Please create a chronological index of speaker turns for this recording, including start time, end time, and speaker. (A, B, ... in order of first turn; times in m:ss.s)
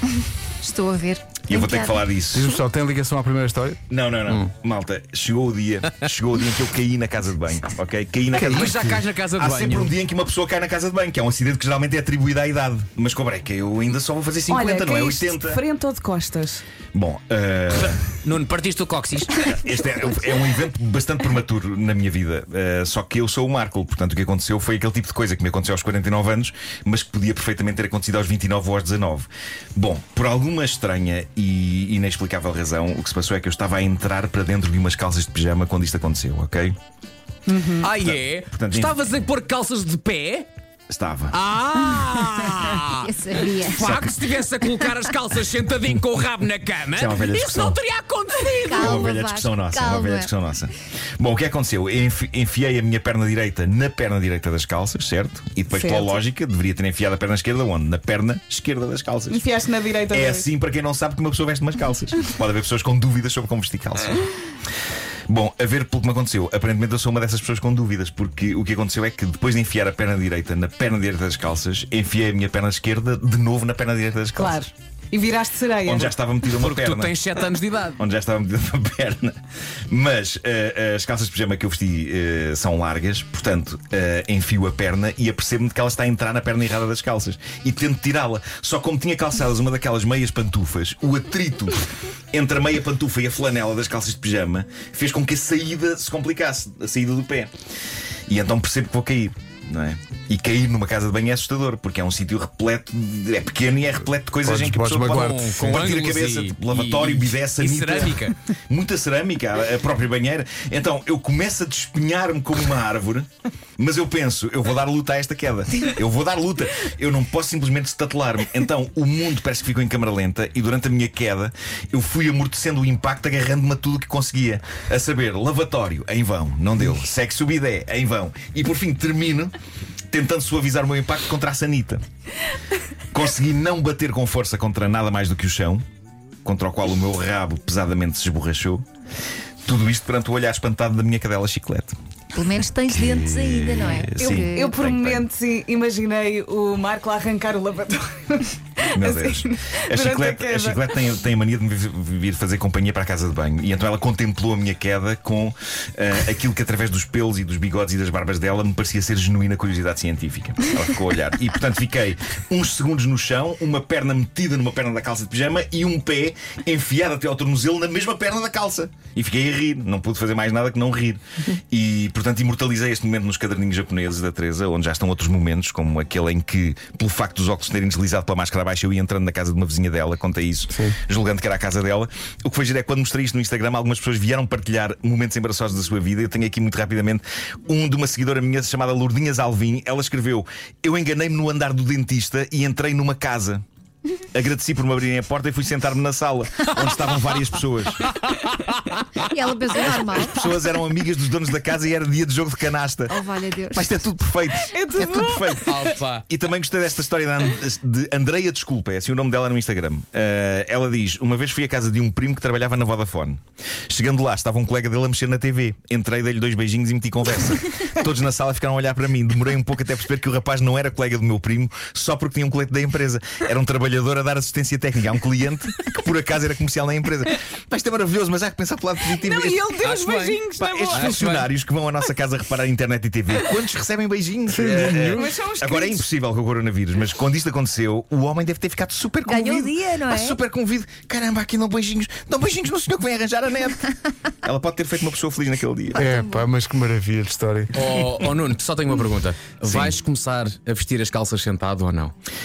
0:00.6-0:02.0 A
0:01.4-0:02.5 B
0:02.3-0:03.8 C
0:03.9-0:15.6 B
0:08.3-0:10.0 D
0:08.4-0:09.0 C
0:14.5-0:16.6 E
0:16.9-0:18.0 B
0:17.7-0:19.4 D
0:19.4-0:36.8 B
0:37.5-0:37.8 E
0:37.8-0:40.5 D
0:38.0-0:39.0 B
0:40.9-0:41.4 B
0:41.3-0:49.0 D
0:42.8-0:44.0 A
0:46.9-0:47.8 B
0:48.6-0:50.3 A
0:48.7-0:59.4 B
0:55.7-0:56.2 E
0:59.3-1:00.5 E
1:00.1-1:04.3 B
1:05.3-1:14.6 B
1:14.4-1:16.1 E
1:15.8-1:17.2 B
1:16.5-1:18.0 D
1:18.0-1:19.4 B
1:19.9-1:31.8 B
1:32.3-1:37.5 B
1:38.3-2:09.5 B
1:44.4-1:45.7 C
1:45.0-1:48.3 D
2:10.1-2:12.0 B
2:13.1-2:15.8 B
2:16.4-2:18.8 B
2:19.6-2:21.9 B
2:22.3-2:24.7 A
2:22.9-2:25.3 B
2:24.2-2:30.9 E
2:28.9-3:13.6 B
3:14.3-3:18.1 B
3:18.1-3:19.0 D
3:19.2-3:20.4 A
3:20.1-3:23.2 B
3:23.1-3:23.9 A
3:23.7-3:49.7 B
3:24.7-3:25.8 E
3:25.7-3:26.2 D
3:49.2-3:51.4 E
3:49.8-3:51.5 D
3:50.6-4:06.0 B
3:54.5-3:55.2 C
3:55.0-3:56.0 E
3:59.3-4:00.4 A
4:05.9-4:06.4 A
4:06.0-4:07.7 C
4:07.7-4:12.1 D
4:09.6-4:10.0 B